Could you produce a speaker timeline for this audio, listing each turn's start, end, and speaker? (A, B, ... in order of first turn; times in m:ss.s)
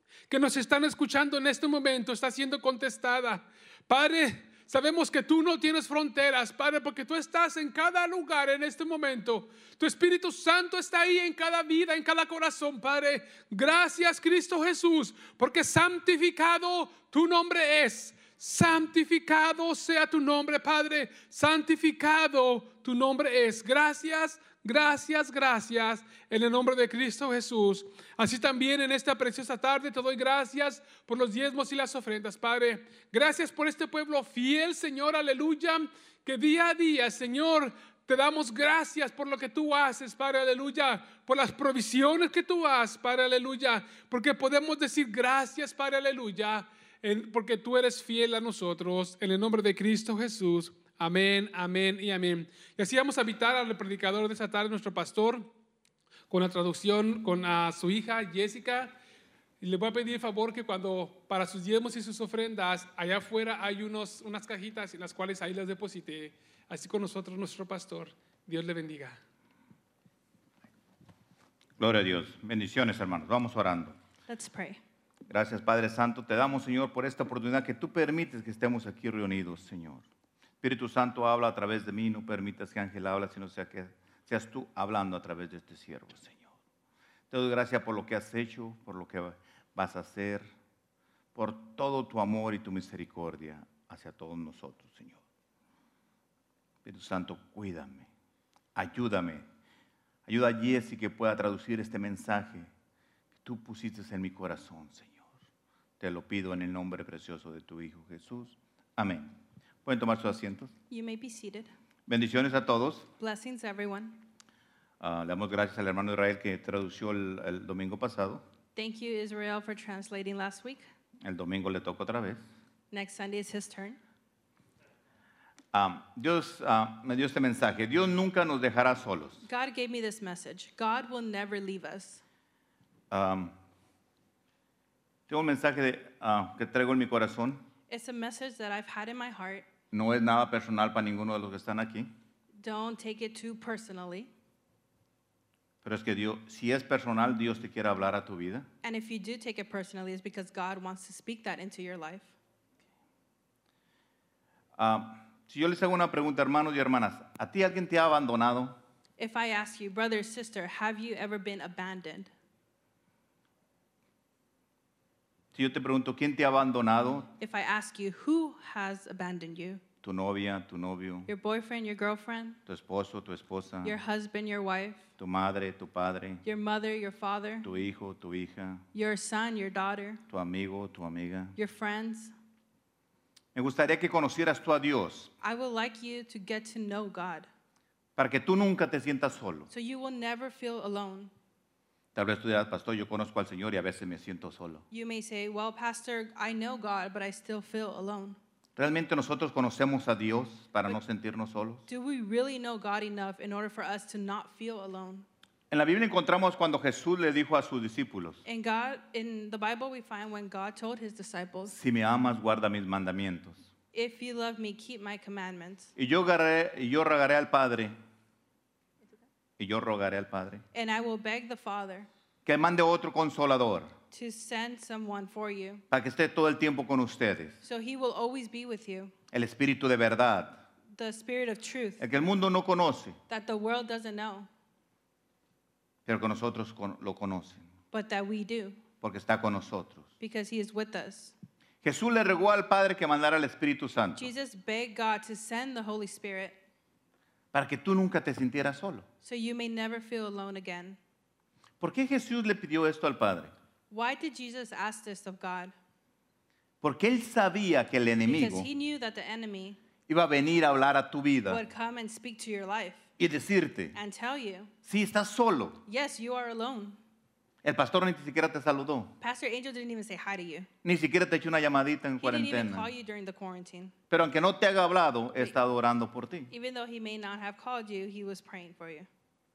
0:00.3-0:55.5 A
0:56.3-0:59.0 A
0:59.6-1:09.2 A
1:11.8-1:14.0 B
1:14.3-1:14.8 C
1:15.3-1:20.0 B
1:20.6-1:26.5 B
1:27.3-1:30.4 B
1:31.3-1:35.2 B
1:36.8-1:38.1 B
1:38.7-1:39.4 B
1:40.3-1:42.7 B
1:43.4-1:45.2 B
1:46.0-1:49.3 B
1:49.8-1:50.7 B
1:50.9-1:51.7 C
1:52.1-1:53.1 B
1:53.2-1:54.2 C
1:55.0-1:58.4 B
1:58.7-2:00.8 C
2:01.2-2:02.4 B
2:02.9-2:04.0 C
2:05.7-2:09.4 B
2:09.4-2:12.2 C
2:13.1-2:13.5 B
2:15.3-2:17.6 B
2:17.9-2:19.7 C
2:19.9-2:22.1 B
2:22.6-2:24.3 C
2:25.8-2:28.7 B
2:28.8-2:32.3 C
2:34.8-2:38.8 B
2:39.2-2:42.3 C
2:45.5-2:47.3 B
2:47.4-2:49.8 C
2:50.0-2:51.3 B
2:51.3-2:52.6 C
2:52.7-2:53.9 B
2:53.8-2:55.1 C
2:55.2-2:56.4 B
2:56.4-2:57.7 C
2:57.6-2:58.8 B
2:58.9-3:00.2 C
3:00.3-3:01.5 B
3:01.6-3:02.3 C
3:03.5-3:05.3 B
3:05.4-3:07.5 C
3:08.2-3:09.7 B
3:09.7-3:11.3 C
3:12.1-3:14.8 B
3:14.9-3:18.4 C
3:18.8-3:21.8 B
3:21.9-3:25.2 C
3:25.7-3:28.4 B
3:28.4-3:31.7 C
3:31.7-3:33.7 B
3:33.9-3:35.9 C
3:36.0-3:37.9 B
3:39.6-3:40.6 B
3:40.7-3:42.1 C
3:42.4-3:43.9 B
3:44.1-3:45.8 C
3:45.9-3:47.6 B
3:47.6-3:49.1 C
3:49.3-3:50.6 B
3:50.9-3:52.0 C
3:52.0-3:53.2 B
3:53.3-3:54.5 C
3:56.0-3:57.6 B
3:57.9-3:58.8 C
3:59.0-4:00.0 B
4:00.2-4:01.3 C
4:01.8-4:04.3 B
4:04.2-4:06.6 C
4:07.5-4:09.0 B
4:09.2-4:11.0 C
4:11.8-4:13.5 B
4:13.9-4:15.7 C
4:16.8-4:18.7 B
4:18.2-4:19.8 C
4:20.1-4:21.6 B
4:21.5-4:23.0 C
4:23.2-4:24.0 B
4:23.9-4:24.7 C
4:24.8-4:25.8 B
4:25.8-4:27.0 C
4:27.6-4:29.1 B
4:29.2-4:30.7 C
4:30.8-4:32.9 B
4:32.2-4:33.9 C
4:34.1-4:36.5 B
4:36.5-4:39.1 C